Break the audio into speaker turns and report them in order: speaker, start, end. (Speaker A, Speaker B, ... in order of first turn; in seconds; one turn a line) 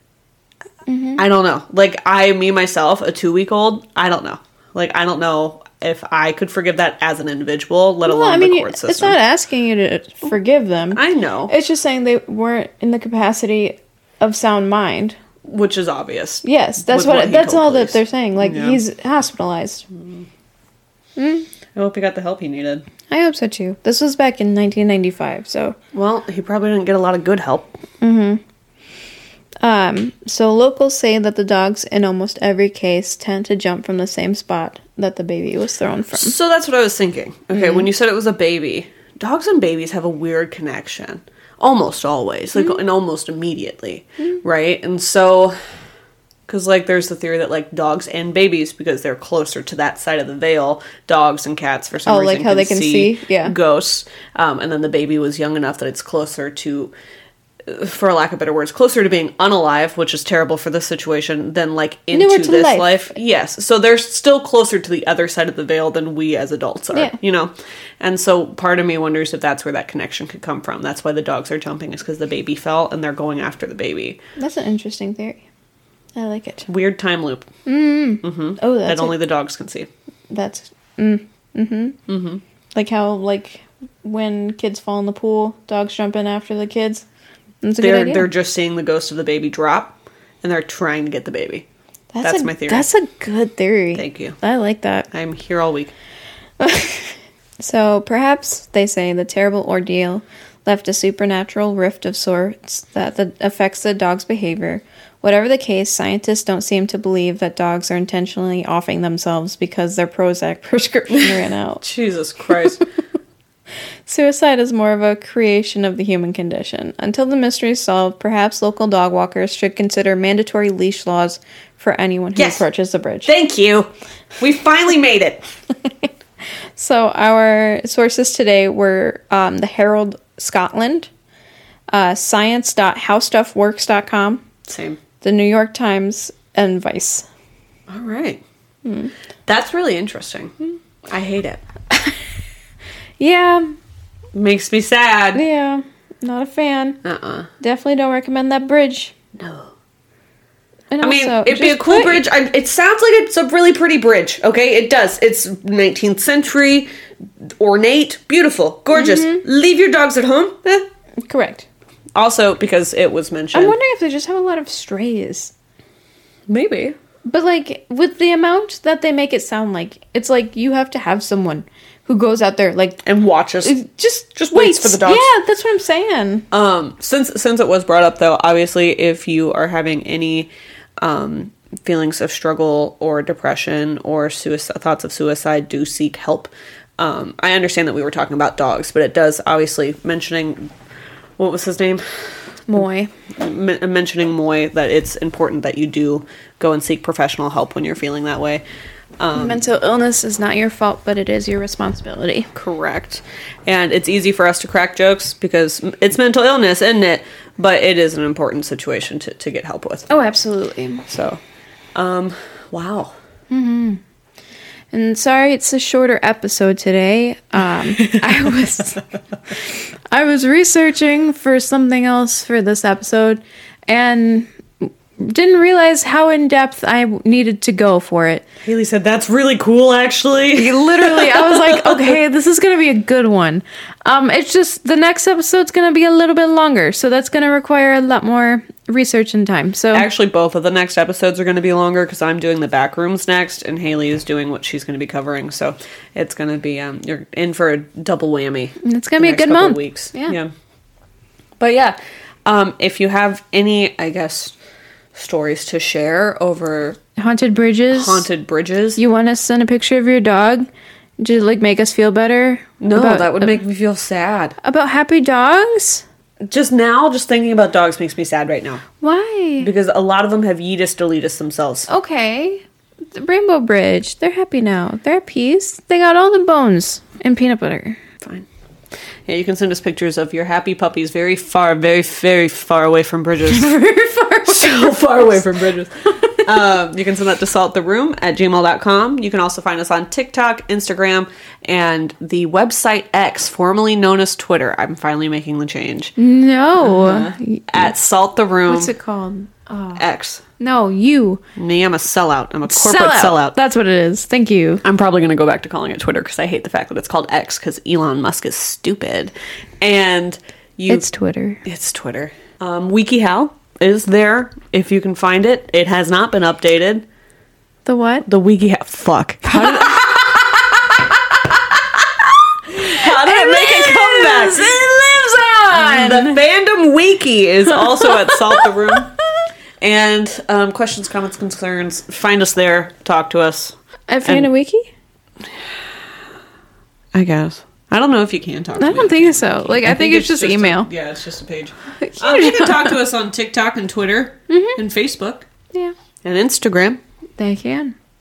Speaker A: 0.9-1.2
Speaker B: 1.2-9.2
Speaker A: 8.0-15.2
Speaker B: 10.9-11.5
Speaker B: 15.4-18.8
Speaker A: 16.4-19.9
Speaker B: 19.9-20.2
Speaker A: 21.2-21.5
Speaker B: 21.7-22.8
Speaker A: 23.1-25.8
Speaker B: 25.9-27.7
Speaker A: 28.0-28.4
Speaker A: 29.6-36.3
Speaker B: 36.1-45.5
Speaker A: 37.5-37.8
Speaker B: 46.5-56.9
Speaker A: 52.0-53.5
Speaker B: 57.6-74.2
Speaker A: 62.1-63.1
Speaker A: 74.4-75.4
Speaker A: 76.2-76.7
Speaker B: 76.7-77.5
Speaker A: 77.7-79.1
Speaker B: 78.2-79.9
Speaker A: 80.3-82.0
Speaker B: 82.1-82.4
Speaker A: 82.7-87.0
Speaker A: 87.6-88.3
Speaker B: 87.8-91.7
Speaker A: 92.1-95.1
Speaker B: 92.2-92.8
Speaker B: 93.9-94.4
Speaker B: 95.1-95.9
Speaker A: 96.6-111.8
Speaker B: 111.1-112.8
Speaker A: 114.1-123.3
Speaker B: 122.3-122.6
Speaker B: 123.2-125.4
Speaker A: 126.8-131.1
Speaker A: 131.9-134.4
Speaker B: 134.6-135.0
Speaker A: 135.2-137.2
Speaker B: 137.9-138.4
Speaker A: 138.8-139.1
Speaker B: 139.4-141.6
Speaker A: 143.2-143.7
Speaker B: 144.3-145.4
Speaker A: 145.3-147.0
Speaker B: 147.0-147.5
Speaker A: 147.6-149.1
Speaker B: 149.3-149.7
Speaker A: 150.9-152.2
Speaker B: 151.0-156.9
Speaker B: 157.4-160.8
Speaker A: 158.9-159.4
Speaker A: 161.2-161.7
Speaker B: 162.1-163.8
Speaker A: 163.5-165.5
Speaker B: 166.5-167.0
Speaker A: 167.2-173.0
Speaker B: 173.0-173.8
Speaker A: 173.6-176.5
Speaker B: 174.3-175.3
Speaker B: 176.5-190.7
Speaker B: 191.4-192.0
Speaker A: 192.7-193.1
Speaker B: 193.3-198.6
Speaker B: 199.2-199.6
Speaker A: 199.3-202.5
Speaker B: 202.5-210.1
Speaker A: 210.1-211.1
Speaker B: 211.1-211.4
Speaker B: 211.9-213.1
Speaker A: 213.5-214.0
Speaker A: 214.9-219.0
Speaker B: 218.0-218.5
Speaker A: 219.7-228.4
Speaker B: 228.6-232.2
Speaker A: 230.5-240.1
Speaker B: 239.9-250.5
Speaker A: 248.8-250.4
Speaker B: 251.6-254.5
Speaker B: 255.1-257.0
Speaker A: 257.2-258.3
Speaker B: 257.9-259.0
Speaker A: 258.9-260.7
Speaker A: 261.2-263.6
Speaker B: 262.8-264.6
Speaker A: 264.6-266.0
Speaker B: 266.4-268.8
Speaker A: 269.0-269.7
Speaker B: 269.6-271.9
Speaker A: 271.9-278.0
Speaker B: 278.2-278.5
Speaker B: 279.2-283.7
Speaker A: 283.4-285.4
Speaker B: 284.5-296.1
Speaker A: 296.2-297.9
Speaker B: 296.8-298.9
Speaker A: 298.6-300.0
Speaker B: 300.0-300.4
Speaker A: 300.6-301.4
Speaker B: 301.5-303.5
Speaker A: 302.7-304.8
Speaker B: 304.8-311.1
Speaker A: 310.9-311.6
Speaker B: 311.6-317.1
Speaker A: 317.8-318.2
Speaker B: 318.2-321.6
Speaker A: 319.4-320.3
Speaker B: 322.7-324.8
Speaker A: 322.7-326.4
Speaker B: 325.7-329.1
Speaker A: 327.7-329.1
Speaker B: 329.8-334.5
Speaker A: 334.1-334.9
Speaker B: 337.1-345.5
Speaker A: 338.8-340.9
Speaker A: 342.0-343.0
Speaker A: 344.5-344.8
Speaker B: 346.2-347.0
Speaker A: 347.4-347.9